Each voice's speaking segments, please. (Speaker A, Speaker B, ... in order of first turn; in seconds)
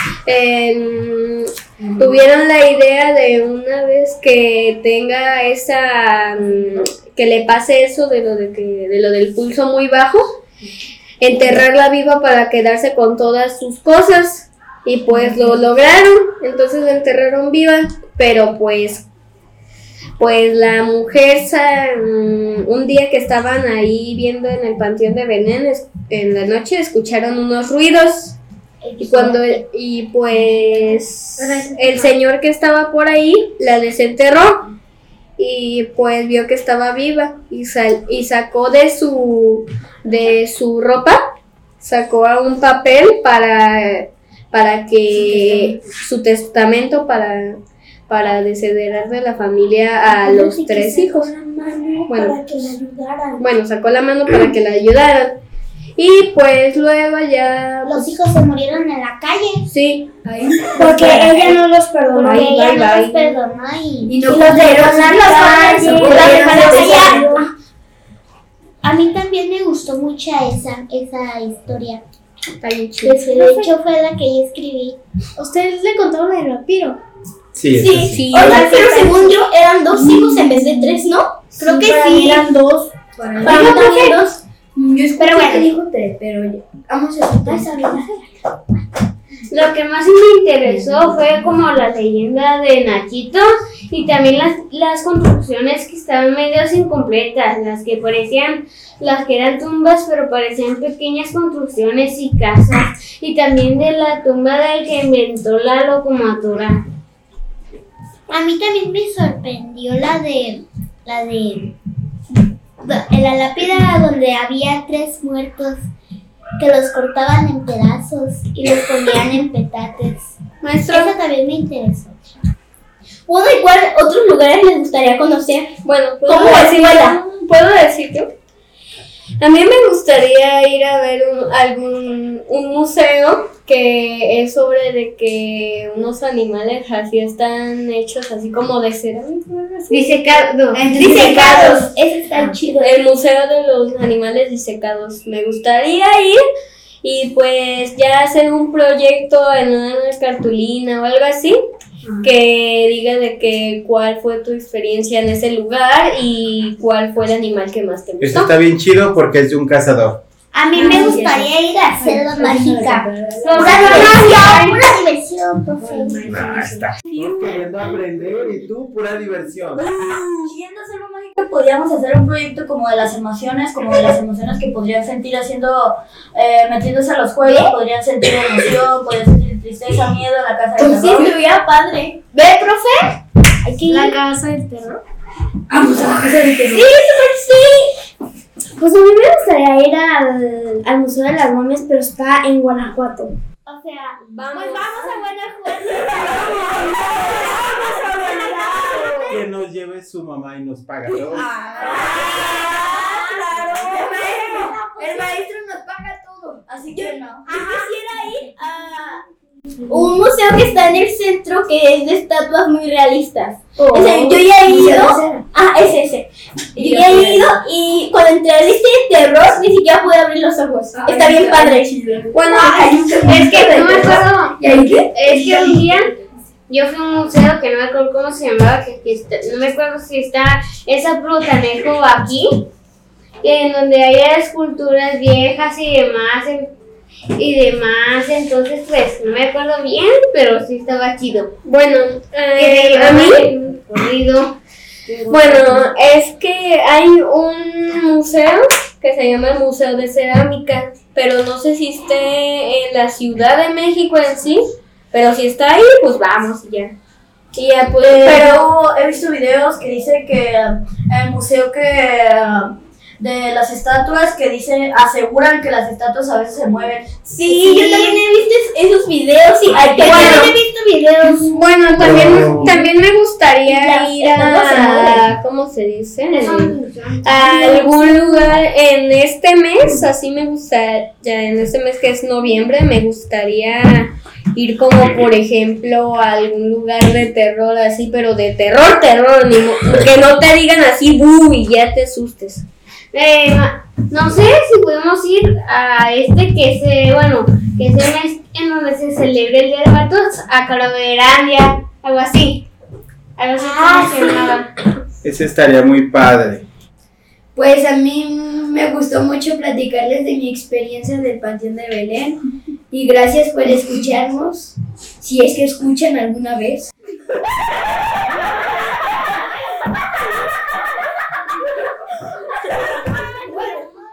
Speaker A: 0.2-10.2, 11.2-19.0, 20.2-28.4, 29.0-34.7, 35.4-41.2, 41.8-51.3, 52.1-52.7, 53.4-55.4, 56.0-58.1, 59.7-60.1, 62.2-63.3, 72.6-73.2, 78.1-78.7, 120.6-121.1, 125.8-128.3, 129.4-140.3, 142.8-146.4, 147.0-151.6, 152.2-158.5, 194.2-195.2, 222.3-224.2, 241.6-243.4, 245.3-254.6, 255.1-256.9, 257.5-258.6, 270.0-270.6, 271.5-292.6
Speaker B: 28.9-29.2, 57.9-59.6, 62.1-67.5, 68.8-72.0, 73.0-75.0, 78.4-79.2, 85.2-85.7, 108.3-111.7, 112.8-115.9, 116.6-120.3, 120.9-122.2, 160.5-166.8, 267.5-268.2, 269.8-272.6, 276.3-278.5
Speaker C: 50.0-53.4, 60.7-62.7, 67.0-67.4, 75.4-76.8, 183.9-185.0, 188.8-193.3
Speaker D: 60.2-61.5, 64.0-67.1, 81.6-82.5, 83.1-84.1, 84.8-88.2, 140.8-142.5, 160.7-164.1, 165.8-166.4, 186.2-186.8, 203.8-207.2, 213.8-215.4, 216.8-217.3, 220.9-221.8, 222.5-226.1, 307.5-316.9
Speaker E: 65.3-66.9, 89.5-106.8, 139.9-140.9, 163.4-164.8, 223.3-226.1, 226.7-232.6, 233.4-236.7, 237.3-241.5, 242.5-244.5, 245.1-245.4, 293.1-302.6, 303.4-304.7
Speaker F: 66.1-67.4, 77.8-82.8, 83.4-84.4, 123.3-125.7, 126.2-127.2, 140.9-142.9, 177.4-177.8, 180.8-184.2, 186.5-187.4, 194.6-199.3, 201.3-205.3, 206.7-209.2, 209.9-222.8, 267.2-270.4, 273.7-275.2
Speaker G: 77.5-78.3, 158.2-160.2, 166.3-170.5, 199.3-201.5, 305.2-306.6
Speaker H: 167.1-167.4, 170.4-181.3, 258.0-267.8